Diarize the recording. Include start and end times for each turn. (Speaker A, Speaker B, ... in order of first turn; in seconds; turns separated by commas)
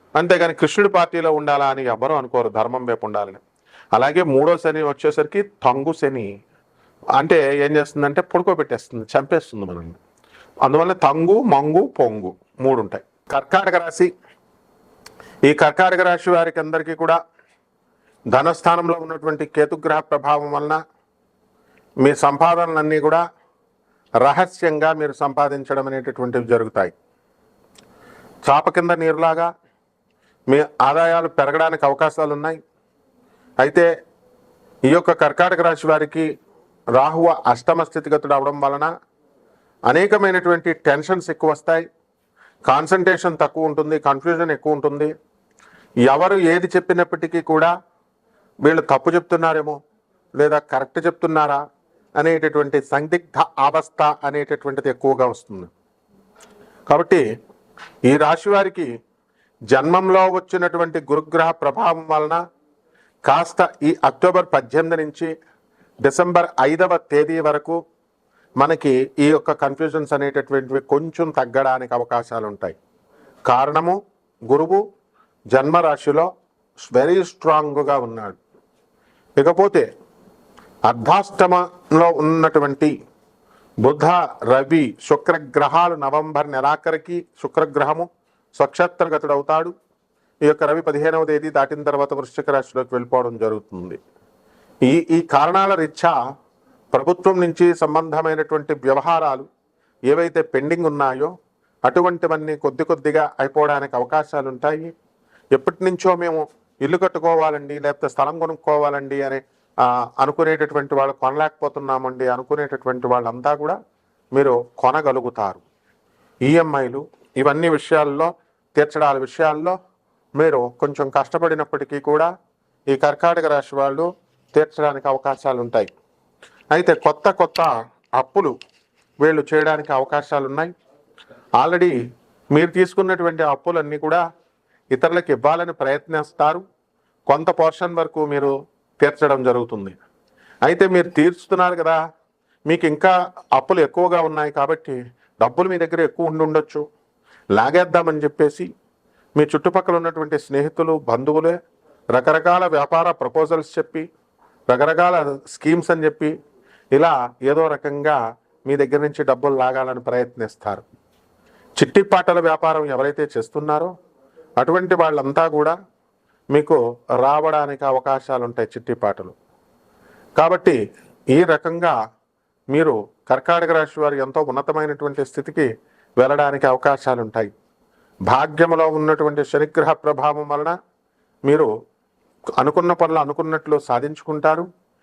Speaker A: 0.2-3.4, Speaker A: 3.9-6.3, Speaker A: 7.2-10.0, Speaker A: 10.6-14.1, Speaker A: 15.5-17.2, Speaker A: 18.3-20.8, Speaker A: 22.0-23.2, Speaker A: 24.2-26.9, Speaker A: 28.4-29.5, Speaker A: 30.5-32.6, Speaker A: 33.6-33.9, Speaker A: 34.9-36.3, Speaker A: 37.0-38.9, Speaker A: 39.9-41.8, Speaker A: 42.6-45.1, Speaker A: 46.0-47.7, Speaker A: 48.6-49.8, Speaker A: 50.4-51.6, Speaker A: 52.2-55.7, Speaker A: 56.9-57.2, Speaker A: 58.1-58.9, Speaker A: 59.7-62.4, Speaker A: 63.3-65.3, Speaker A: 66.0-67.8, Speaker A: 68.6-72.8, Speaker A: 73.5-74.0, Speaker A: 74.5-74.8, Speaker A: 75.5-76.3, Speaker A: 76.8-78.4, Speaker A: 79.4-79.8, Speaker A: 80.8-82.9, Speaker A: 83.8-88.1, Speaker A: 88.6-89.7, Speaker A: 90.5-94.0, Speaker A: 94.9-96.1, Speaker A: 96.9-99.5, Speaker A: 100.1-101.3, Speaker A: 101.8-104.9, Speaker A: 105.5-113.8, Speaker A: 114.3-115.6, Speaker A: 116.5-119.7, Speaker A: 120.4-122.3, Speaker A: 122.9-125.9, Speaker A: 126.7-128.5, Speaker A: 129.2-130.7, Speaker A: 131.6-131.9, Speaker A: 132.5-134.2, Speaker A: 134.9-136.6, Speaker A: 137.3-139.9, Speaker A: 140.7-142.0, Speaker A: 142.7-146.8, Speaker A: 147.5-148.7, Speaker A: 149.3-151.6, Speaker A: 152.1-154.0, Speaker A: 154.7-156.3, Speaker A: 156.9-160.8, Speaker A: 161.8-163.9, Speaker A: 164.6-165.7, Speaker A: 166.5-169.3, Speaker A: 170.4-170.8, Speaker A: 171.3-171.9, Speaker A: 172.7-175.7, Speaker A: 176.2-177.5, Speaker A: 178.3-180.7, Speaker A: 182.6-184.7